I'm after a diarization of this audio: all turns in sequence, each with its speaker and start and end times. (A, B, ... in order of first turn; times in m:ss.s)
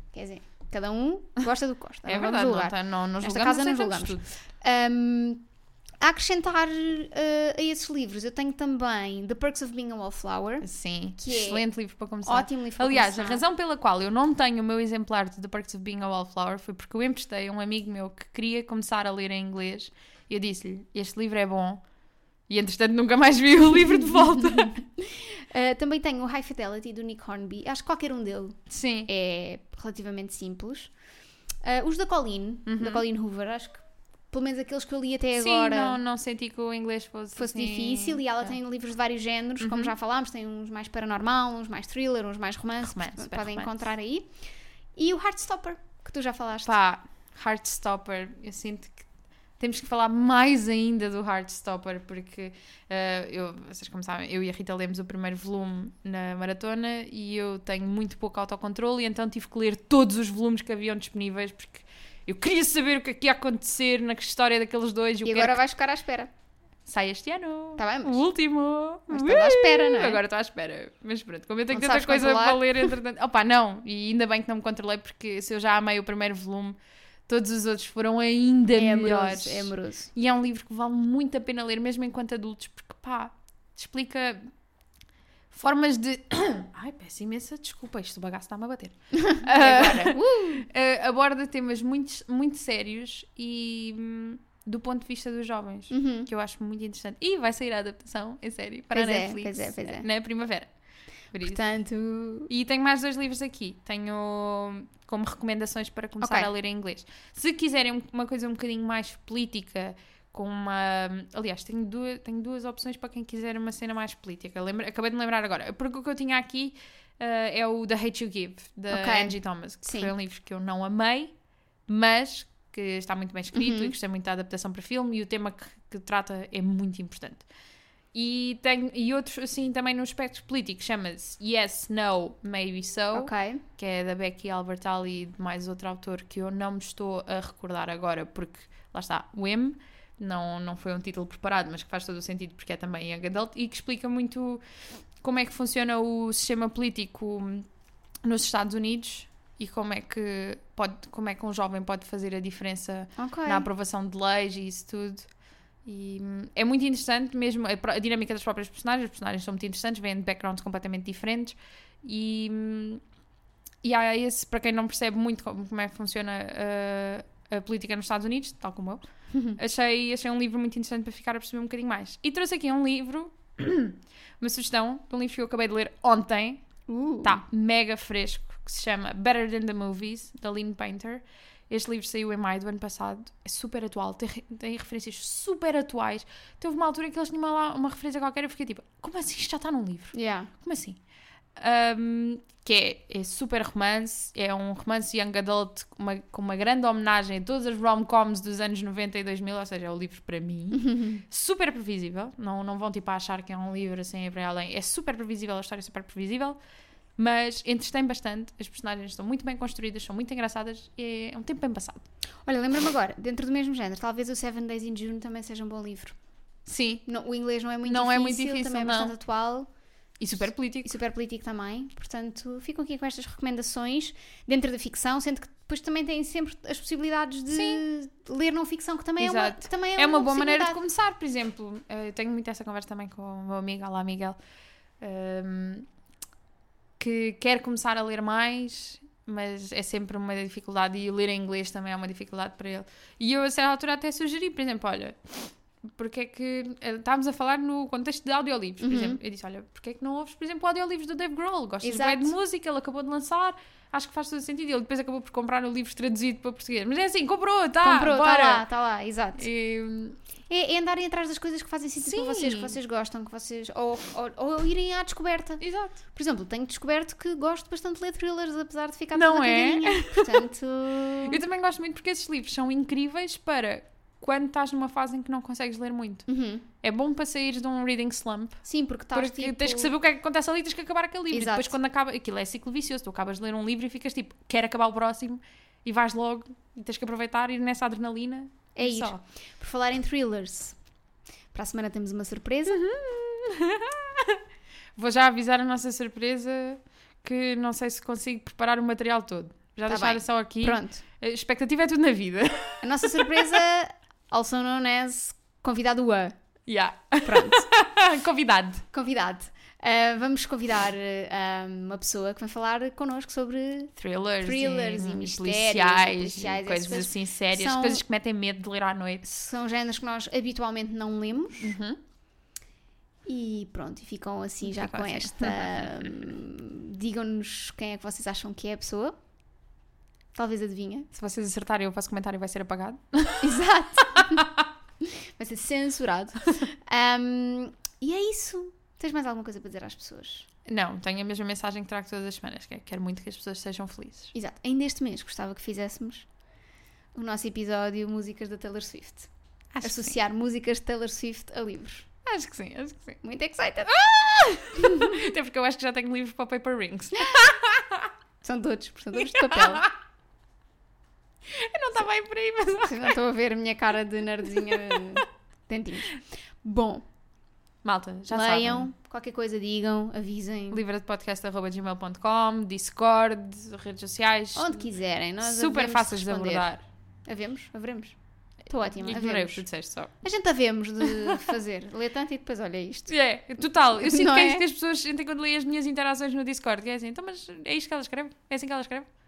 0:00.1-0:05.5 A
0:02.0-0:04.3 B
0:06.0-0:11.7 A
0:10.6-0:21.8 B
0:12.2-0:13.4 A
0:22.5-0:24.8 B
0:23.9-0:30.9 A
0:28.7-0:29.1 B
0:31.6-0:36.0 A
0:32.7-0:33.0 B
0:35.4-0:38.5 B
0:37.4-0:44.3 A
0:39.6-0:39.9 B
0:42.8-0:43.9 B
0:45.0-0:46.8 A
0:46.6-0:49.1 B
0:49.6-1:05.6 B
1:05.2-1:06.3 A
1:06.9-1:16.8 B
1:07.8-1:08.3 A
1:09.1-1:10.2 A
1:11.7-1:12.9 A
1:17.3-1:24.5 B
1:18.8-1:20.1 A
1:25.5-1:40.7 B
1:29.1-1:30.7 A
1:35.9-1:36.3 A
1:38.9-1:40.0 A
1:41.3-1:41.6 B
1:41.4-1:42.5 A
1:42.5-2:01.3 B
1:46.2-1:46.5 A
1:58.9-2:00.1 A
2:01.9-2:07.5 B
2:03.5-2:03.9 A
2:08.1-2:24.6 B
2:13.1-2:13.6 A
2:25.2-2:27.7 B
2:28.2-2:35.3 B
2:33.2-2:33.7 A
2:35.8-2:43.0 B
2:43.8-2:49.0 B
2:49.3-2:49.6 A
2:49.6-2:56.6 B
2:56.9-2:57.4 A
2:57.2-3:11.0 B
3:10.1-3:10.5 A
3:11.6-3:26.6 B
3:20.7-3:21.2 A
3:27.2-3:32.0 B
3:32.5-3:36.2 A
3:36.7-3:37.0 B
3:37.1-3:39.7 A
3:37.8-3:39.1 B
3:40.2-3:41.0 B
3:40.8-3:50.8 A
3:47.5-3:47.8 B
3:49.2-3:54.4 B
3:55.0-3:55.9 B
3:57.0-4:18.6 B
4:08.8-4:09.2 A
4:11.8-4:12.3 A
4:17.8-4:19.5 A
4:19.4-4:20.2 B
4:20.5-4:31.4 A
4:22.0-4:22.8 B
4:25.6-4:26.0 B
4:29.2-4:30.5 B
4:31.2-4:36.2 B
4:36.3-4:36.7 A
4:36.8-4:38.6 B
4:38.6-4:39.9 A
4:39.1-4:49.2 B
4:41.3-4:41.7 A
4:48.8-4:50.8 A
4:51.5-4:52.8 A
4:52.7-4:54.4 B
4:55.0-5:03.6 B
4:59.9-5:01.0 A
5:02.8-5:06.4 A
5:06.7-5:08.8 B
5:07.2-5:07.7 A
5:08.9-5:18.0 A
5:14.0-5:19.2 B
5:19.2-5:21.7 A
5:21.6-5:22.0 B
5:23.3-5:29.2 A
5:24.6-5:26.3 B
5:30.3-5:31.1 A
5:31.1-5:34.5 B
5:33.4-5:34.5 A
5:35.0-5:40.5 A
5:40.6-5:44.3 B
5:44.3-5:46.3 A
5:47.2-5:49.3 A
5:49.7-5:50.2 B
5:49.8-5:52.1 A
5:52.2-5:53.2 B
5:53.2-5:55.3 A
5:53.9-5:58.1 B
5:57.1-5:57.5 A
5:58.4-5:59.9 A
5:59.1-5:59.9 B
6:01.5-6:03.2 B
6:02.8-6:07.0 A
6:04.5-6:05.0 B
6:07.8-6:08.9 B
6:08.3-6:10.8 A
6:10.7-6:14.9 B
6:14.6-6:16.7 A
6:15.4-6:16.8 B
6:17.3-6:18.2 A
6:18.7-6:19.6 A
6:18.8-6:20.1 B
6:20.2-6:23.1 A
6:23.1-6:29.1 B
6:23.9-6:24.7 A